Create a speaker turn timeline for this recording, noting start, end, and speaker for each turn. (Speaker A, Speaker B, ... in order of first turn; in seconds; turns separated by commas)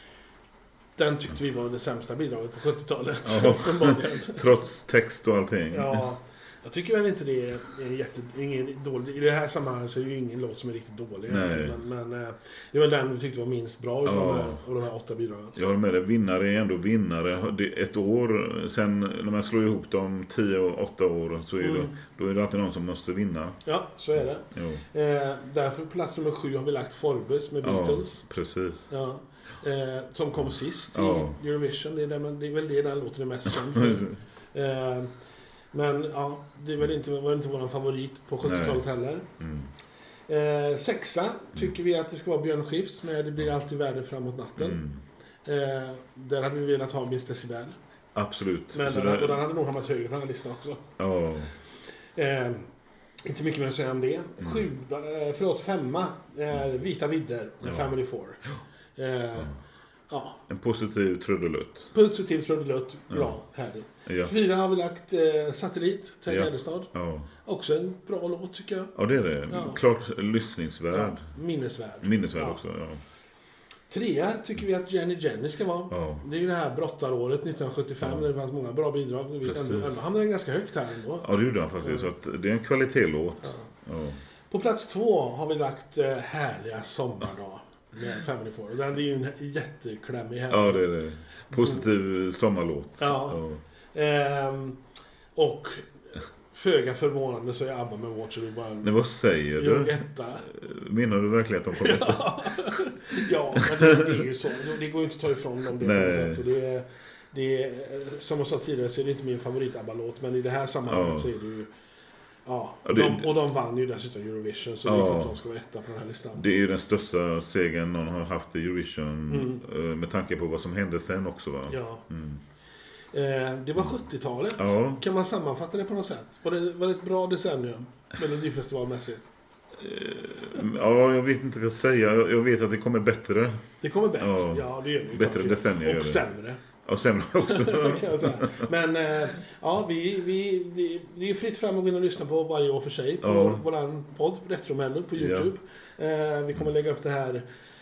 Speaker A: 0.9-4.6, Speaker B: 3.2-6.0, Speaker A: 5.7-15.6, Speaker B: 11.3-11.8, Speaker B: 14.0-14.6, Speaker B: 15.6-23.6, Speaker A: 21.6-21.9, Speaker A: 23.6-28.2, Speaker B: 24.5-24.8, Speaker B: 27.6-28.9, Speaker A: 28.9-35.1, Speaker B: 30.9-31.4, Speaker B: 33.7-34.2, Speaker A: 35.7-39.3, Speaker B: 38.4-38.8, Speaker B: 39.4-39.7, Speaker A: 40.3-44.8, Speaker B: 44.6-45.0, Speaker A: 45.4-47.8, Speaker B: 48.1-49.4, Speaker A: 48.7-50.9, Speaker B: 51.0-51.5, Speaker A: 52.1-52.7, Speaker A: 53.2-58.4, Speaker B: 54.4-54.6, Speaker B: 57.6-57.9, Speaker A: 59.0-59.5, Speaker A: 60.1-60.4, Speaker B: 60.5-61.9, Speaker A: 61.9-66.9, Speaker B: 63.1-63.4, Speaker B: 64.0-64.3, Speaker B: 66.3-67.3, Speaker A: 67.4-68.9, Speaker B: 69.0-71.3, Speaker A: 69.5-69.8, Speaker A: 70.9-72.6, Speaker B: 72.0-73.0, Speaker A: 73.9-81.3, Speaker B: 75.9-76.2, Speaker B: 79.4-79.9, Speaker B: 81.2-84.2, Speaker A: 81.8-82.1, Speaker A: 83.4-83.7, Speaker A: 84.5-90.9, Speaker B: 90.5-93.6, Speaker A: 91.5-91.8, Speaker A: 93.0-93.4, Speaker A: 93.9-94.8, Speaker A: 95.3-95.9, Speaker A: 96.5-98.9, Speaker B: 98.8-102.7, Speaker A: 99.5-100.5, Speaker A: 101.7-111.7, Speaker B: 103.5-104.2, Speaker B: 105.8-106.4, Speaker B: 110.9-111.3, Speaker A: 112.5-116.5, Speaker B: 112.8-113.3, Speaker B: 114.8-115.3, Speaker B: 116.3-122.4, Speaker A: 119.3-119.6, Speaker A: 121.7-122.0, Speaker A: 123.1-129.3, Speaker B: 124.5-125.0, Speaker B: 129.8-133.7, Speaker A: 133.8-136.6, Speaker B: 134.2-136.2, Speaker B: 136.8-138.6, Speaker A: 137.4-147.4, Speaker B: 143.2-143.6, Speaker B: 145.2-145.5